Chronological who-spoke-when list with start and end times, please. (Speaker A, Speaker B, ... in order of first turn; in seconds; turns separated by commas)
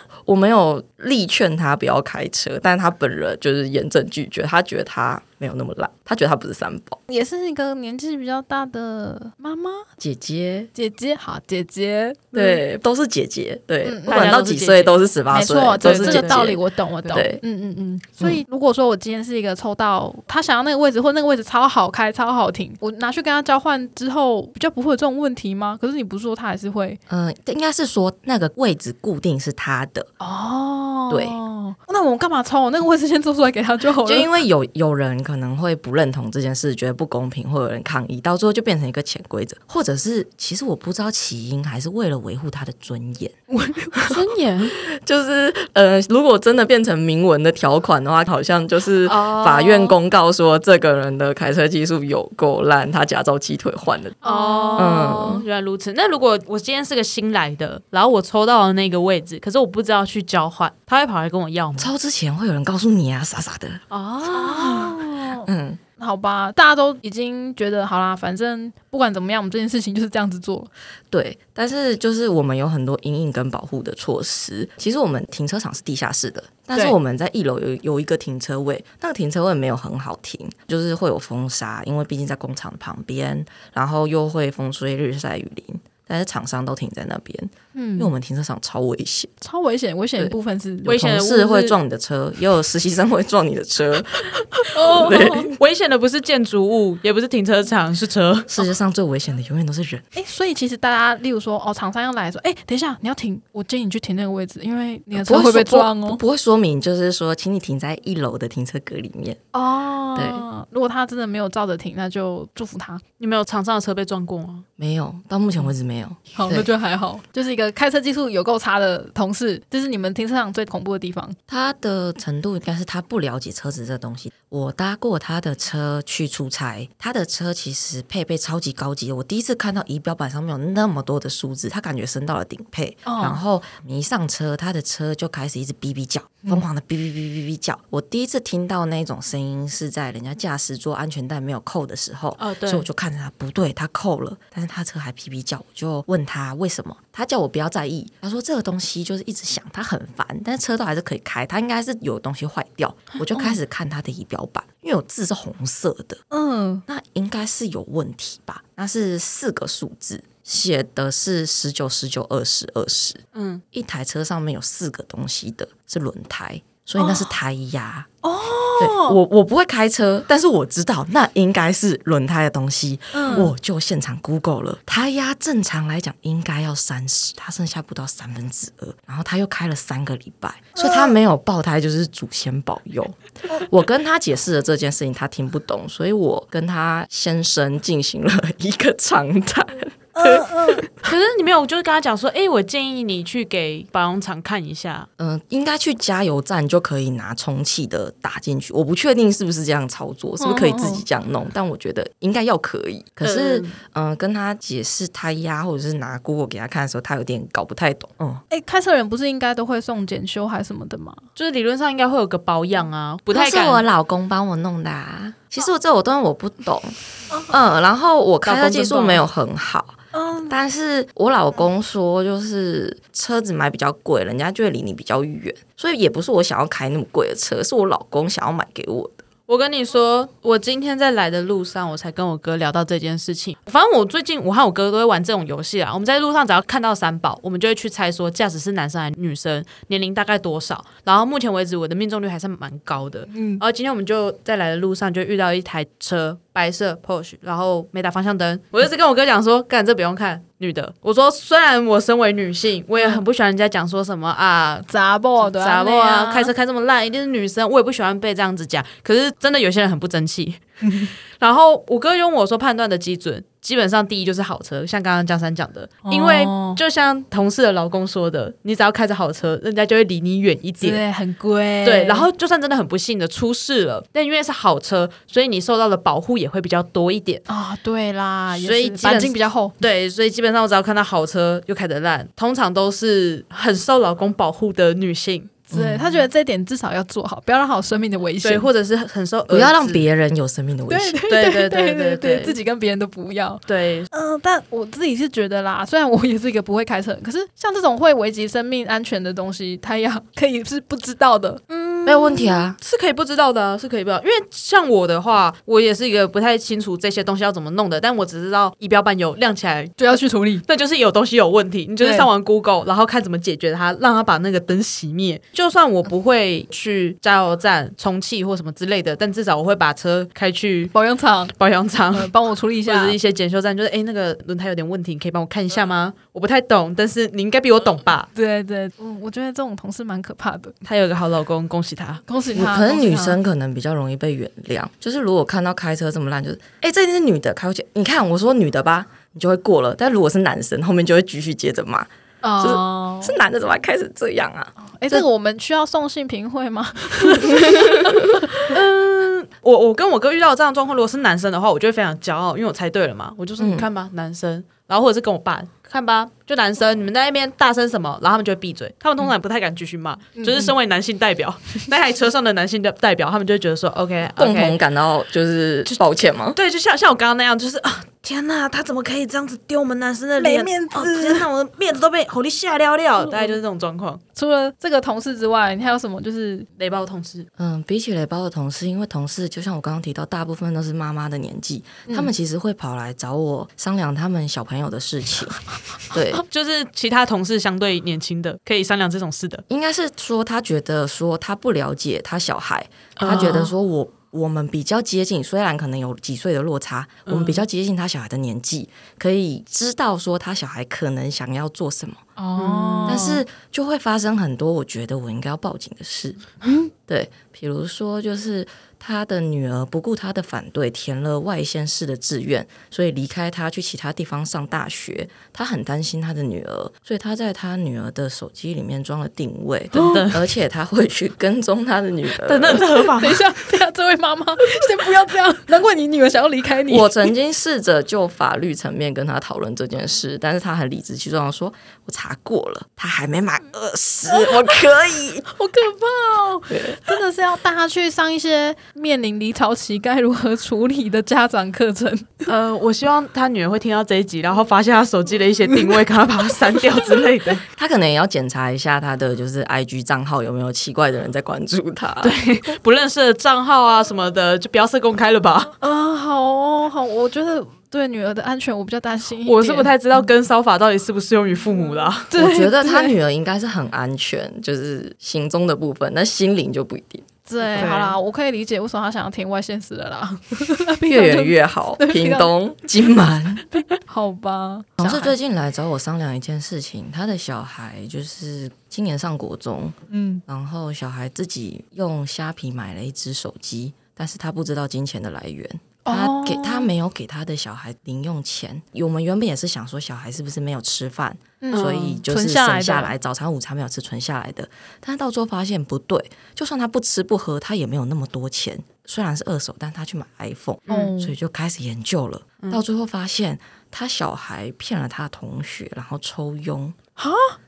Speaker A: 0.2-7.0, Speaker B: 7.1-9.9, Speaker A: 10.0-10.7, Speaker B: 10.7-12.6, Speaker A: 12.3-16.6, Speaker B: 13.8-14.2, Speaker C: 14.1-15.0, Speaker B: 15.3-27.0, Speaker C: 15.8-16.5, Speaker A: 17.1-17.4, Speaker A: 27.1-30.1, Speaker B: 30.2-34.3, Speaker A: 31.1-31.4, Speaker A: 34.0-43.4, Speaker B: 43.5-44.0, Speaker A: 44.0-44.2, Speaker C: 44.0-44.7, Speaker A: 44.7-54.2, Speaker C: 49.0-50.0, Speaker B: 54.2-55.3, Speaker C: 54.2-61.9, Speaker A: 54.8-55.4, Speaker A: 61.8-63.8, Speaker C: 63.9-65.0, Speaker B: 64.3-70.7, Speaker A: 65.4-65.8, Speaker A: 71.1-89.3, Speaker B: 87.7-88.1, Speaker B: 89.4-91.0, Speaker C: 90.8-91.8, Speaker A: 90.9-95.6, Speaker B: 94.7-95.5, Speaker C: 95.6-98.5, Speaker A: 98.5-100.0, Speaker B: 100.1-106.2, Speaker A: 105.1-109.4, Speaker B: 109.5-113.0, Speaker A: 110.1-110.4, Speaker C: 113.2-114.6, Speaker A: 114.8-116.7, Speaker B: 116.3-121.4, Speaker A: 121.5-156.2, Speaker B: 133.0-133.4, Speaker C: 142.4-142.8, Speaker B: 156.3-156.8, Speaker A: 156.9-163.2, Speaker C: 163.3-163.6, Speaker A: 163.7-168.1, Speaker B: 167.0-167.3, Speaker B: 168.2-169.2, Speaker A: 168.8-190.9, Speaker B: 173.1-173.5, Speaker B: 180.7-181.1, Speaker B: 190.1-190.9, Speaker C: 191.0-195.1, Speaker A: 195.2-208.4, Speaker B: 200.4-201.0, Speaker C: 203.2-203.8, Speaker B: 208.5-211.2, Speaker C: 211.3-213.8, Speaker A: 213.3-216.9, Speaker A: 217.5-229.2, Speaker C: 218.4-219.2, Speaker B: 220.1-220.5, Speaker C: 229.5-271.0, Speaker B: 243.3-243.6, Speaker B: 254.9-256.5, Speaker B: 260.8-261.1, Speaker B: 266.0-266.8, Speaker B: 270.8-272.3, Speaker C: 271.8-277.4, Speaker B: 277.5-279.7, Speaker C: 278.5-285.6, Speaker B: 285.7-288.7, Speaker A: 285.7-286.2, Speaker C: 288.4-290.0, Speaker A: 289.5-291.2, Speaker B: 290.9-301.6, Speaker C: 291.3-292.5, Speaker C: 293.7-294.1, Speaker C: 301.7-310.0, Speaker A: 302.1-302.8, Speaker B: 310.0-310.6, Speaker C: 310.7-320.9, Speaker B: 312.0-312.3, Speaker B: 320.9-321.5, Speaker C: 321.6-322.3, Speaker B: 322.1-323.2, Speaker C: 322.8-328.3, Speaker B: 328.3-330.8, Speaker C: 330.8-332.2, Speaker B: 332.3-333.4, Speaker A: 332.5-345.2, Speaker B: 342.4-343.4, Speaker B: 344.8-348.7, Speaker A: 347.6-348.4, Speaker C: 348.6-364.8, Speaker A: 353.6-353.9, Speaker B: 360.4-360.7, Speaker A: 364.4-366.6, Speaker C: 365.9-374.2, Speaker B: 370.4-371.5, Speaker B: 374.3-376.7, Speaker C: 376.8-377.5, Speaker A: 377.6-386.4, Speaker C: 386.4-389.6, Speaker A: 389.7-402.2, Speaker C: 393.2-393.7, Speaker C: 397.2-397.6, Speaker B: 402.4-403.4, Speaker C: 402.6-403.3, Speaker A: 403.1-406.4, Speaker B: 406.6-406.9, Speaker A: 407.1-422.9, Speaker B: 419.9-420.3, Speaker C: 419.9-420.4, Speaker C: 422.4-423.5, Speaker B: 422.9-427.3, Speaker A: 426.9-435.4, Speaker B: 435.5-442.5, Speaker A: 436.7-437.0, Speaker C: 442.5-447.6, Speaker A: 447.7-452.4, Speaker C: 452.2-455.7, Speaker B: 455.8-459.9, Speaker C: 459.4-462.3, Speaker B: 462.3-463.1, Speaker A: 462.3-467.9, Speaker B: 467.5-472.5, Speaker C: 467.7-468.1, Speaker A: 471.1-473.6, Speaker B: 473.7-475.3, Speaker A: 475.0-479.9, Speaker B: 480.1-480.4, Speaker A: 480.5-506.9, Speaker B: 486.0-486.9, Speaker B: 491.6-493.1, Speaker C: 491.7-492.2, Speaker C: 500.9-501.1, Speaker B: 500.9-501.3, Speaker B: 507.2-507.6